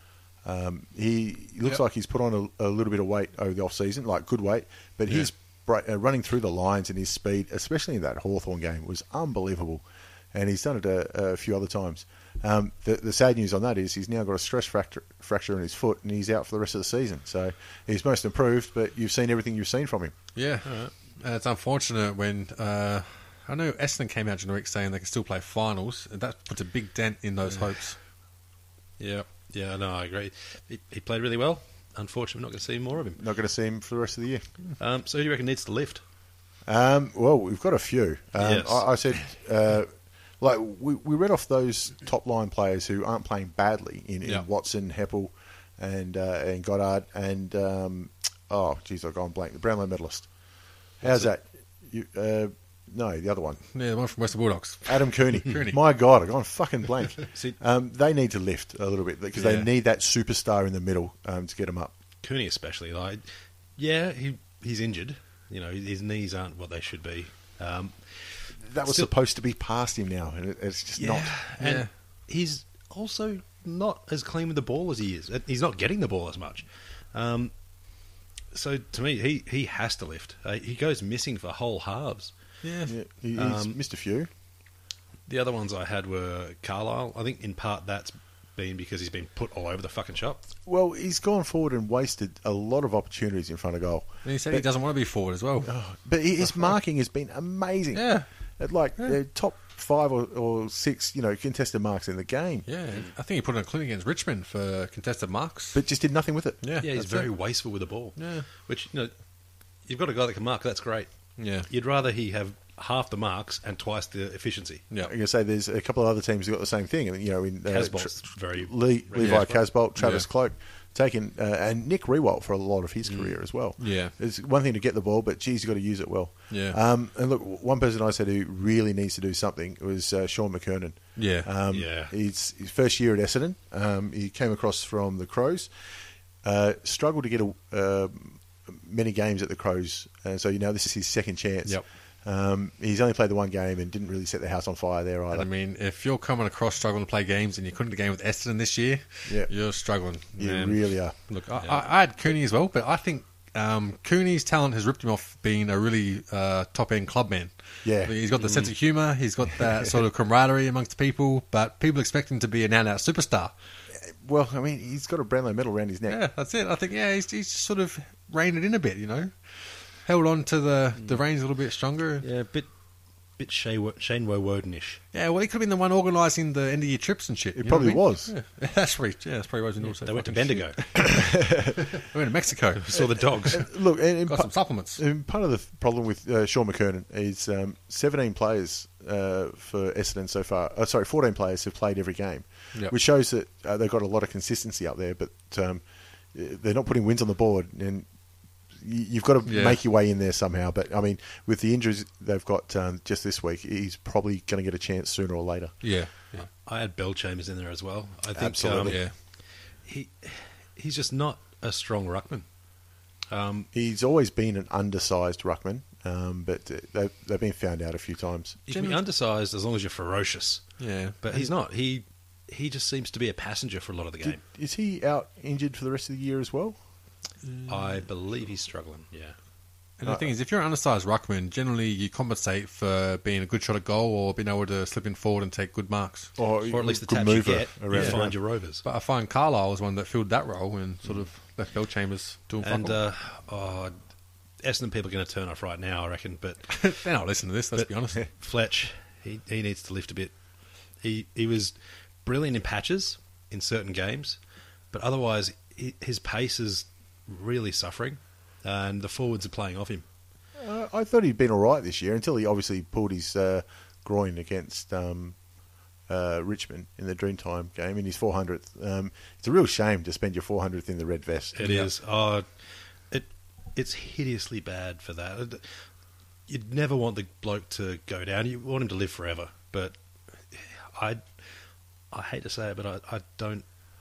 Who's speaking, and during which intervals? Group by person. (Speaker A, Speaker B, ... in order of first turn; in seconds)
Speaker A: 0.4-20.1, 33.2-34.5, 36.6-50.3, 51.0-53.6, 54.8-61.9, 68.6-71.3, 82.9-84.3, 90.7-94.7, 95.6-102.7, 105.7-106.6, 115.0-135.7, 136.4-145.5, 149.2-149.5, 150.4-151.2, 157.8-158.2, 164.0-166.2, 177.6-178.3, 180.9-181.9, 183.5-198.1, 198.8-205.8, 208.3-209.0, 213.7-218.6, 224.2-226.8, 230.0-230.3, 236.4-238.3, 260.6-265.4, 266.1-271.7
Speaker B: 20.3-28.0, 53.7-55.8, 59.4-59.7, 71.6-71.9, 82.6-82.9, 94.2-95.7, 96.4-96.7, 97.9-98.3, 102.7-105.8, 106.6-107.3, 108.2-108.5, 111.4-111.7, 119.2-120.3, 123.8-124.1, 126.5-126.8, 131.2-131.5, 145.3-163.5, 166.1-172.2, 175.1-183.2, 184.2-185.0, 199.4-199.8, 205.8-206.4, 208.8-209.1, 218.7-219.0, 220.8-221.4, 227.4-228.0, 230.0-236.3, 237.9-238.2, 238.8-243.0, 246.7-248.2, 271.6-271.9
Speaker C: 20.6-20.9, 29.0-33.2, 34.8-36.0, 38.4-39.2, 57.3-57.6, 62.2-63.2, 63.8-69.1, 71.0-77.5, 78.5-82.3, 83.3-83.8, 85.3-90.5, 106.8-109.1, 109.8-111.1, 111.6-114.8, 117.7-119.6, 123.0-123.4, 131.7-132.1, 158.4-158.7, 172.2-172.7, 173.4-175.0, 179.8-180.9, 182.8-183.7, 206.5-209.0, 209.8-212.4, 213.3-213.7, 218.7-220.7, 221.2-224.4, 227.7-229.3, 236.7-238.8, 242.6-243.9, 244.6-246.9, 248.2-250.3, 251.0-251.7, 252.2-254.4, 254.9-260.0, 271.6-272.4, 273.1-275.7, 276.5-279.9, 280.5-281.2, 282.1-283.6